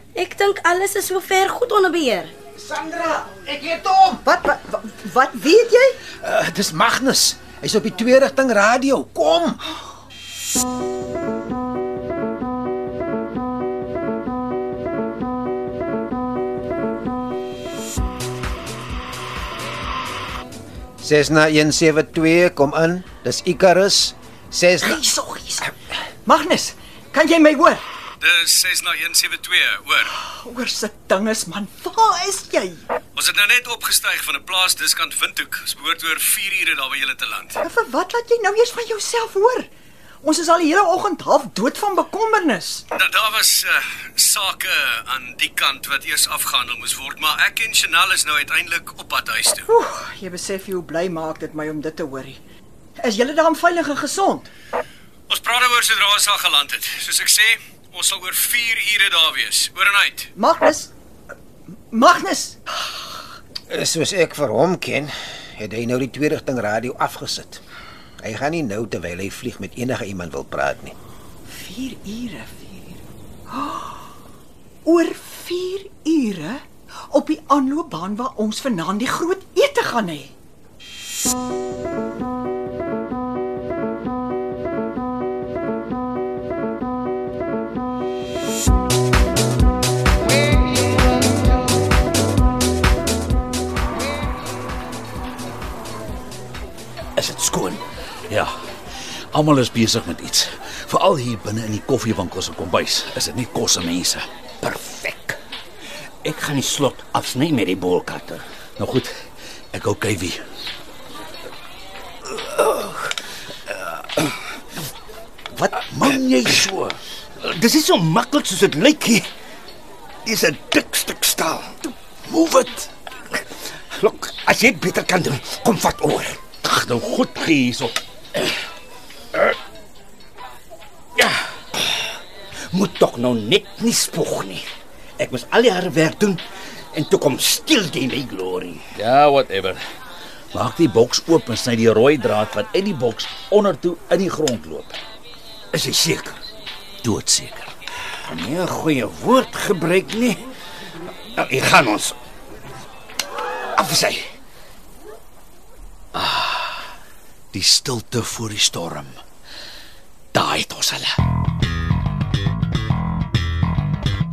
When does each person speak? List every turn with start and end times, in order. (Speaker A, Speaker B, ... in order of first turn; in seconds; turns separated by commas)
Speaker A: 0.2-2.3, Speaker B: 2.6-4.2, Speaker C: 4.2-6.0, Speaker B: 6.2-9.6, Speaker B: 21.0-25.0, Speaker C: 24.8-27.8, Speaker D: 28.2-30.1, Speaker C: 30.1-32.9, Speaker D: 33.1-37.6, Speaker C: 37.6-39.7, Speaker C: 40.2-42.8, Speaker D: 42.9-49.6, Speaker C: 49.6-52.4, Speaker C: 53.0-54.5, Speaker D: 55.3-60.3, Speaker C: 60.4-60.9, Speaker C: 61.9-62.6, Speaker B: 63.7-67.6, Speaker B: 68.2-70.9, Speaker C: 71.5-74.1, Speaker C: 74.8-80.3, Speaker E: 97.2-97.8, Speaker F: 99.3-104.2, Speaker E: 104.6-105.4, Speaker E: 106.2-108.4, Speaker F: 108.8-109.1, Speaker F: 109.7-110.4, Speaker E: 112.3-113.1, Speaker E: 113.8-114.2, Speaker E: 115.5-116.7, Speaker F: 115.7-117.0, Speaker E: 117.4-119.3, Speaker E: 120.2-121.8, Speaker F: 122.3-122.9, Speaker E: 123.9-126.6, Speaker F: 126.6-128.5, Speaker E: 132.7-134.7, Speaker E: 135.2-136.4, Speaker E: 136.9-138.8, Speaker F: 138.9-139.8, Speaker F: 140.5-145.0, Speaker E: 145.7-146.4, Speaker F: 147.0-147.7, Speaker E: 148.2-150.5, Speaker E: 151.3-152.2, Speaker E: 153.8-154.2, Speaker F: 156.1-156.9, Speaker F: 157.5-159.1, Speaker F: 160.3-161.2